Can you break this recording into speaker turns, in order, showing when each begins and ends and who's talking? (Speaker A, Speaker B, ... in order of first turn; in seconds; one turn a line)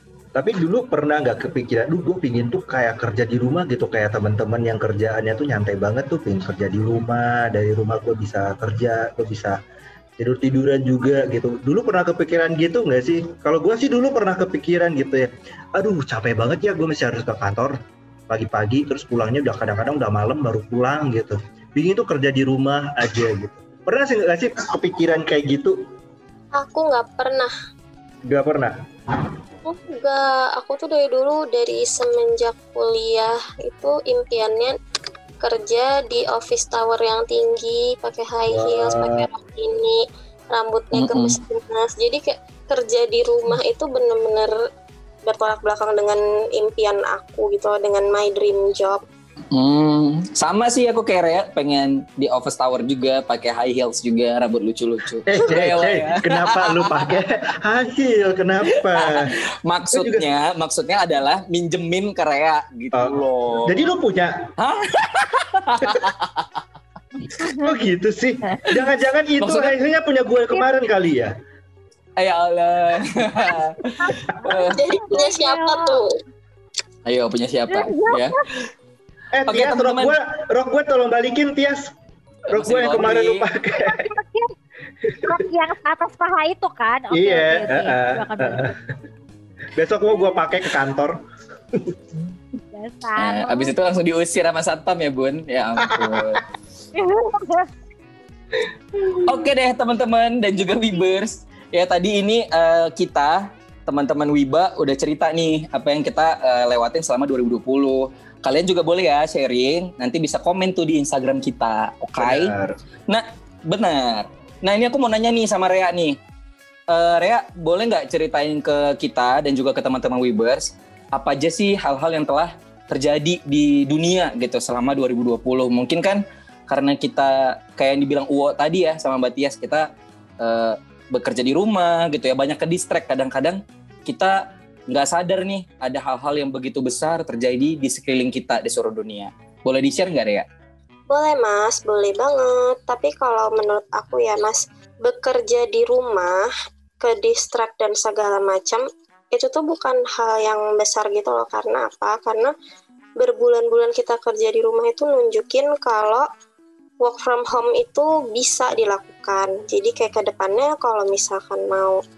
Speaker A: 0.3-9.6
Speaker A: 10.2-17.8
Speaker A: 18.3-25.8
Speaker B: 26.6-27.5
Speaker A: 28.3-28.7
Speaker B: 29.6-34.7
Speaker B: 35.4-40.0
Speaker A: 38.5-39.3
Speaker B: 40.5-44.5
Speaker C: 41.0-41.4
Speaker B: 45.3-49.0
Speaker C: 49.5-57.1
Speaker A: 55.3-59.4
Speaker C: 59.0-63.9
Speaker A: 59.9-60.3
Speaker A: 62.9-64.5
Speaker C: 64.6-66.6
Speaker D: 67.3-67.6
Speaker A: 67.5-71.3
Speaker C: 69.4-69.7
Speaker C: 72.2-74.0
Speaker D: 74.0-76.0
Speaker C: 74.5-74.8
Speaker B: 74.7-76.1
Speaker C: 77.1-78.7
Speaker D: 77.7-78.4
Speaker A: 79.3-81.9
Speaker C: 79.5-80.2
Speaker A: 82.5-84.1
Speaker C: 82.5-83.5
Speaker D: 83.8-84.5
Speaker A: 85.0-85.3
Speaker D: 85.3-88.7
Speaker A: 87.1-88.8
Speaker A: 89.8-91.2
Speaker A: 91.7-92.0
Speaker D: 92.7-93.7
Speaker C: 93.2-96.4
Speaker A: 95.9-96.3
Speaker D: 97.0-97.7
Speaker C: 99.2-112.5
Speaker A: 112.2-112.7
Speaker C: 113.1-116.2
Speaker C: 116.9-129.9
Speaker C: 130.4-140.5
Speaker B: 141.1-146.5
Speaker B: 147.0-152.5
Speaker B: 153.2-156.3
Speaker B: 157.0-162.0